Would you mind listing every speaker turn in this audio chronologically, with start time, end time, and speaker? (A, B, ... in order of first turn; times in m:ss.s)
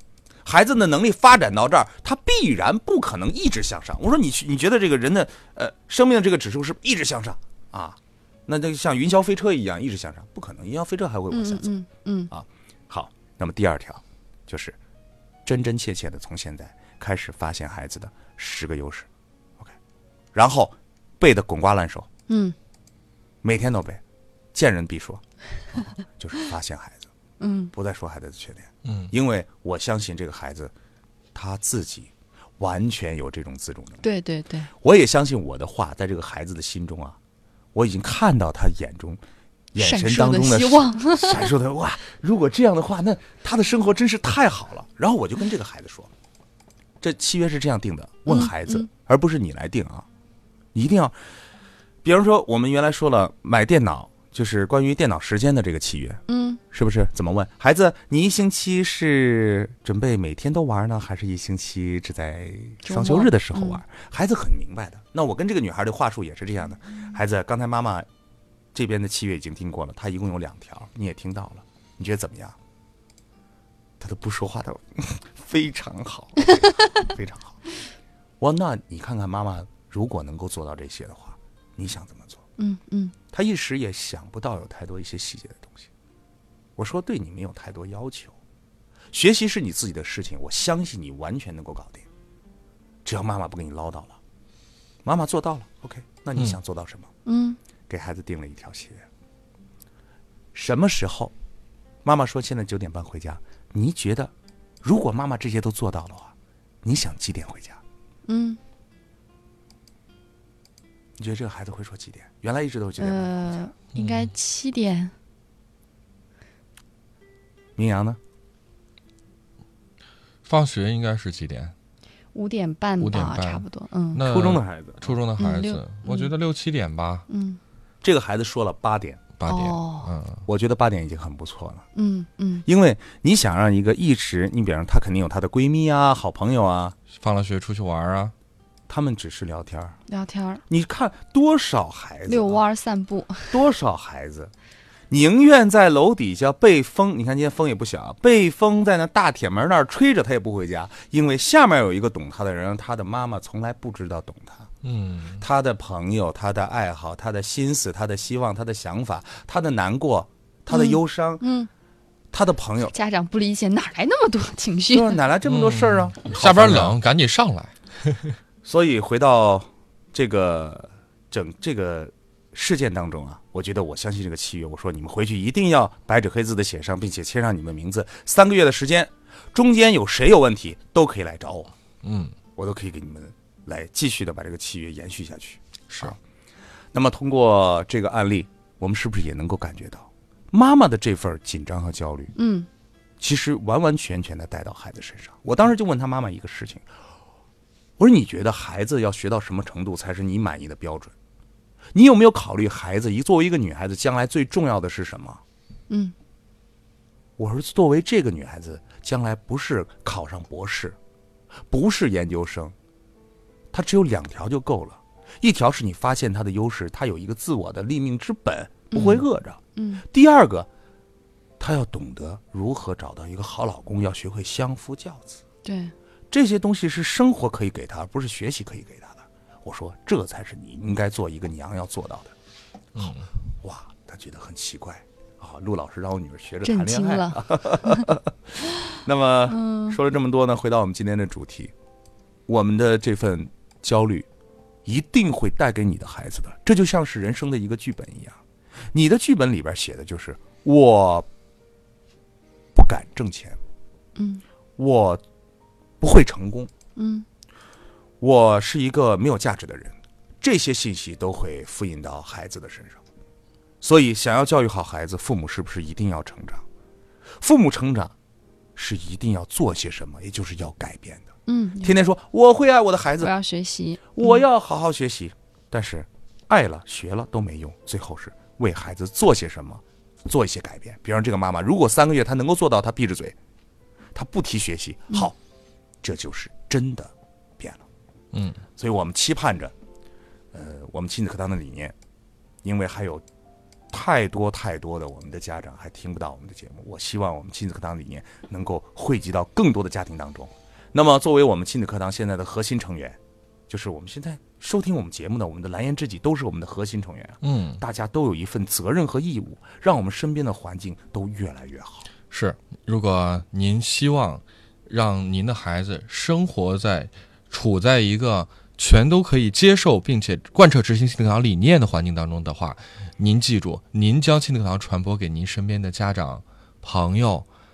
0:00.4-0:11.7 A
0:11.3-0:12.3 B
0:12.3-0:14.8 A
0:15.4-0:19.1 A
0:20.3-0:22.1 A
0:22.3-0:22.5 B
0:23.4-0:24.0 A
0:24.5-0:27.0 A
0:27.4-0:27.7 B
0:27.7-0:30.7 A
0:28.8-0:29.1 C
0:31.3-0:34.0 A
0:34.0-0:34.7 B
0:34.8-0:37.2 A
0:37.7-0:39.2 A
0:39.7-0:46.1 A
0:39.8-0:41.5 B
0:47.0-0:50.0 A
0:48.3-0:48.9 B
0:50.7-0:51.1 A
0:52.0-1:08.1 A
0:56.3-0:56.6 B
1:02.8-1:03.8 B
1:08.7-1:12.6 A
1:14.0-1:17.6 A
1:18.4-1:22.4 A
1:22.6-1:23.1 B
1:23.3-1:25.9 A
1:26.8-1:28.3 A
1:29.1-1:32.1 A
1:33.0-1:34.2 A
1:35.0-1:37.1 A
1:37.2-1:37.6 B
1:37.9-1:39.0 A
1:40.5-1:41.3 A
1:42.0-1:44.3 A
1:44.8-1:46.3 A
1:46.8-1:47.8 A
1:48.3-1:48.6 B
1:51.2-1:53.6 A
1:53.0-1:55.1 B
1:53.9-1:54.3 C
1:57.8-1:58.2 A
2:00.4-2:01.7 C
2:02.3-2:04.2 B
2:03.0-2:07.2 C
2:04.2-2:05.2 A
2:05.4-2:06.3 B
2:07.3-2:07.6 B
2:08.0-2:09.2 A
2:09.4-2:10.4 C
2:09.4-2:10.1 B
2:10.5-2:11.8 A
2:11.9-2:12.6 B
2:12.6-2:17.0 A
2:17.1-2:18.3 C
2:18.9-2:20.0 A
2:20.1-2:20.6 B
2:20.7-2:22.6 A
2:22.3-2:23.5 B
2:23.5-2:24.5 A
2:25.1-2:34.7 A
2:34.8-2:35.4 C
2:35.4-2:41.4 A
2:40.7-2:41.7 B
2:42.3-2:42.9 A
2:42.9-2:45.2 B
2:44.9-2:47.0 A
2:45.4-2:48.4 C
2:48.6-3:01.7 A
3:02.0-3:02.3 C
3:02.6-3:06.2 A
3:05.9-3:06.1 C
3:06.9-3:12.3 A
3:12.4-3:12.7 B
3:13.2-3:16.9 A
3:18.0-3:21.1 A
3:21.9-3:25.4 A
3:27.4-3:31.0 A
3:31.7-3:32.7 A
3:33.7-3:40.7 A
3:38.9-3:39.2 B
3:39.8-3:40.0 B
3:41.6-3:45.4 A
3:45.6-3:45.9 B
3:46.3-3:52.3 A
3:52.9-3:53.3 C
3:53.6-4:01.7 A
3:56.6-3:58.1 B
3:59.5-4:00.0 B
4:02.5-4:04.3 A
4:04.8-4:08.4 A
4:08.9-4:11.3 A
4:12.7-4:13.6 A
4:14.2-4:14.4 B
4:14.8-4:15.2 A
4:16.0-4:16.7 A
4:17.0-4:17.2 B
4:18.2-4:23.0 A
4:23.8-4:26.6 A
4:27.4-4:28.1 A
4:28.8-4:31.3 A
4:31.5-4:32.0 B
4:31.8-4:33.3 A
4:33.2-4:34.4 B
4:34.1-4:43.4 A
4:44.1-4:45.4 A
4:46.0-4:47.8 A
4:48.3-4:48.6 C
4:48.8-4:49.7 A
4:50.5-4:51.9 A
4:52.6-4:53.2 A
4:53.9-5:12.1 A
5:07.4-5:07.8 C
5:12.3-5:27.5 C